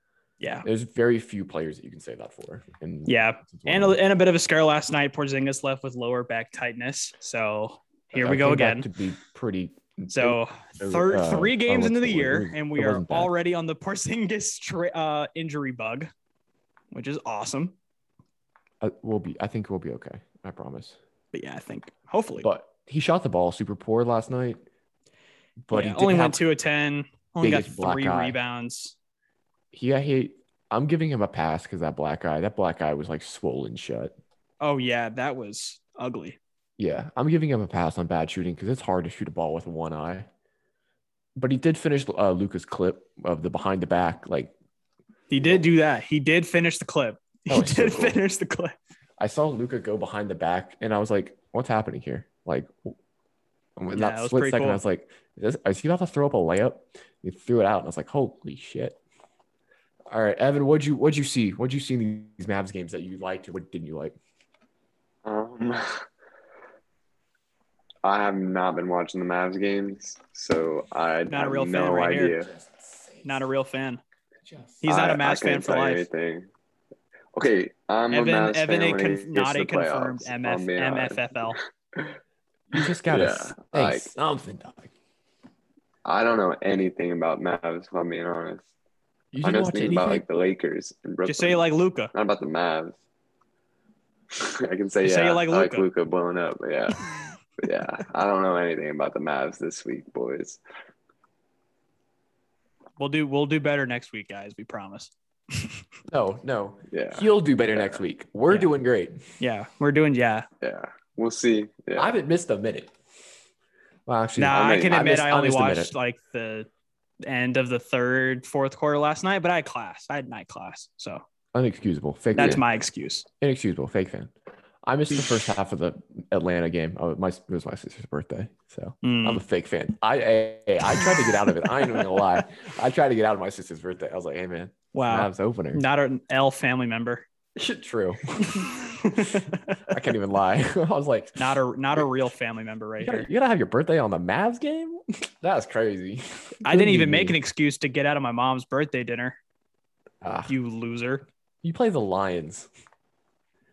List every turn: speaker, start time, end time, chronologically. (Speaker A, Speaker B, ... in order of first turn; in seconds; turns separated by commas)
Speaker A: 0.4-0.7, Speaker B: 0.6-4.0, Speaker A: 3.0-8.9, Speaker B: 8.2-13.3, Speaker A: 10.1-16.1, Speaker A: 16.9-17.7, Speaker B: 18.8-21.0, Speaker A: 21.3-22.5, Speaker B: 22.4-24.6, Speaker B: 25.7-26.4, Speaker A: 25.7-28.9, Speaker B: 27.4-28.4, Speaker B: 29.7-34.1, Speaker A: 34.6-36.4, Speaker B: 36.8-40.3, Speaker B: 41.4-44.5, Speaker A: 45.3-48.7, Speaker B: 47.5-48.2, Speaker B: 49.2-52.9, Speaker B: 53.8-59.0, Speaker A: 53.9-54.8, Speaker B: 60.1-64.1, Speaker C: 65.2-66.0, Speaker C: 68.0-72.5, Speaker A: 71.3-72.4, Speaker B: 72.5-73.4, Speaker A: 73.2-74.0, Speaker B: 74.4-74.8, Speaker A: 74.8-76.1, Speaker C: 74.8-76.5, Speaker C: 77.3-82.1, Speaker A: 78.1-81.6, Speaker B: 82.7-84.9, Speaker C: 82.7-84.1, Speaker C: 86.0-88.7, Speaker B: 89.3-90.2, Speaker C: 89.4-93.0, Speaker A: 91.2-92.1, Speaker C: 94.3-97.0, Speaker A: 95.0-95.9, Speaker C: 97.6-100.6, Speaker A: 103.0-105.8, Speaker B: 106.1-109.2, Speaker C: 106.9-108.0, Speaker A: 109.4-110.5, Speaker C: 110.6-112.1, Speaker B: 111.9-112.9, Speaker B: 114.0-115.9, Speaker A: 114.3-116.7, Speaker C: 114.5-115.1, Speaker A: 117.2-121.2, Speaker B: 121.5-122.6, Speaker A: 122.3-123.3, Speaker B: 123.4-124.3, Speaker B: 124.8-135.8, Speaker A: 129.0-129.4, Speaker A: 131.5-132.1, Speaker A: 134.9-137.3, Speaker B: 137.6-142.0, Speaker A: 138.4-139.9, Speaker A: 141.4-143.3, Speaker B: 143.0-147.3, Speaker A: 146.6-149.4, Speaker B: 150.2-150.5, Speaker A: 150.5-151.2, Speaker B: 151.6-152.7